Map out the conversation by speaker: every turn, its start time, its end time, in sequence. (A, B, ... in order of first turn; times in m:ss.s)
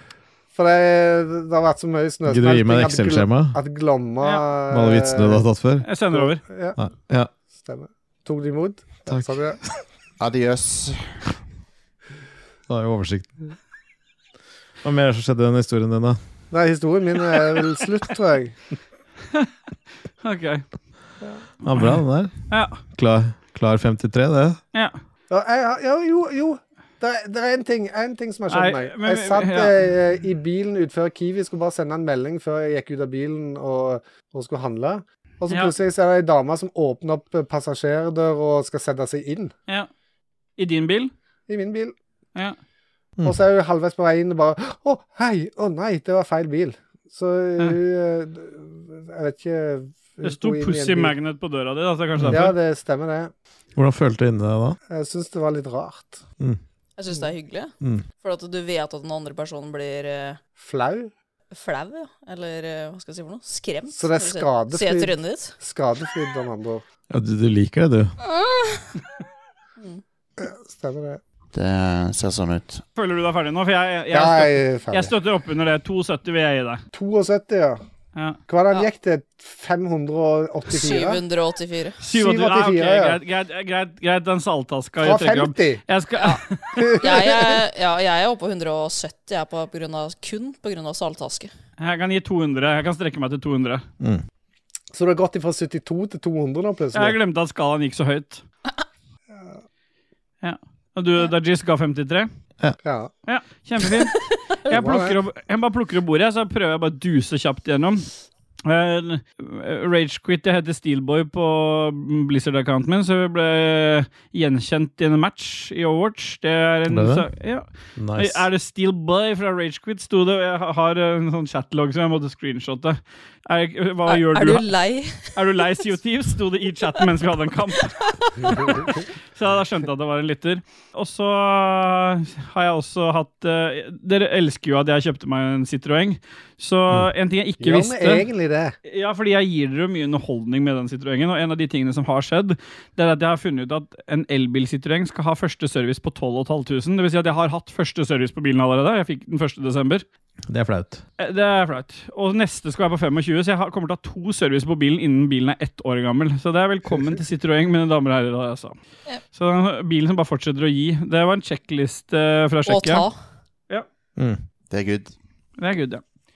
0:00.5-0:05.4 A
0:02.2-0:03.6 B
0:04.7-0:05.9 B
0:05.8-0:06.4 C
0:06.1-0:06.8 A
0:06.8-0:07.3 B
0:07.6-0:09.6 A
0:09.1-0:09.5 B
0:10.2-0:11.1 D
0:12.7-0:13.3 B
0:14.8-0:16.2 B
0:16.5-0:18.6 A
0:20.2-0:20.6 C
0:21.6-0:24.6 B
0:22.5-0:22.8 C
0:25.3-0:39.5 A
0:28.5-0:29.7 C
0:40.6-0:41.1 C
0:41.5-0:41.9 A
0:43.2-0:51.1 A
0:50.2-0:52.6 C
0:52.2-0:52.5 B
0:52.3-0:53.3 A
0:53.8-0:54.8 B
0:54.9-0:56.2 A
0:57.0-1:00.4 E
1:00.6-1:01.1 A
1:01.5-1:05.5 E
1:03.9-1:06.8 A
1:07.1-1:08.1 B
1:08.2-1:08.9 E
1:10.4-1:11.2 A
1:11.5-1:12.8 D
1:13.0-1:16.8 C
1:14.1-1:15.1 A
1:16.9-1:17.8 A
1:18.5-1:21.2 A
1:20.7-1:22.0 E
1:22.0-1:26.9 C
1:22.1-1:23.2 A
1:25.0-1:25.8 A
1:26.8-1:27.5 A
1:27.0-1:31.5 E
1:31.8-1:33.8 C
1:34.9-1:37.2 A
1:36.9-1:38.4 C
1:40.4-1:42.3 C
1:42.8-1:43.1 A
1:43.3-1:48.1 C
1:44.7-1:45.2 A
1:48.6-2:04.6 C
1:56.9-1:57.3 B
1:58.0-1:58.5 B
2:04.1-2:05.3 E
2:05.3-2:08.5 C
2:08.0-2:08.8 E
2:09.3-2:18.3 C
2:17.6-2:18.7 A
2:18.9-2:30.0 C
2:30.5-2:31.0 B
2:31.2-2:38.7 C
2:39.3-2:43.0 C
2:42.7-2:43.2 E
2:44.7-2:45.1 D
2:45.6-2:46.0 C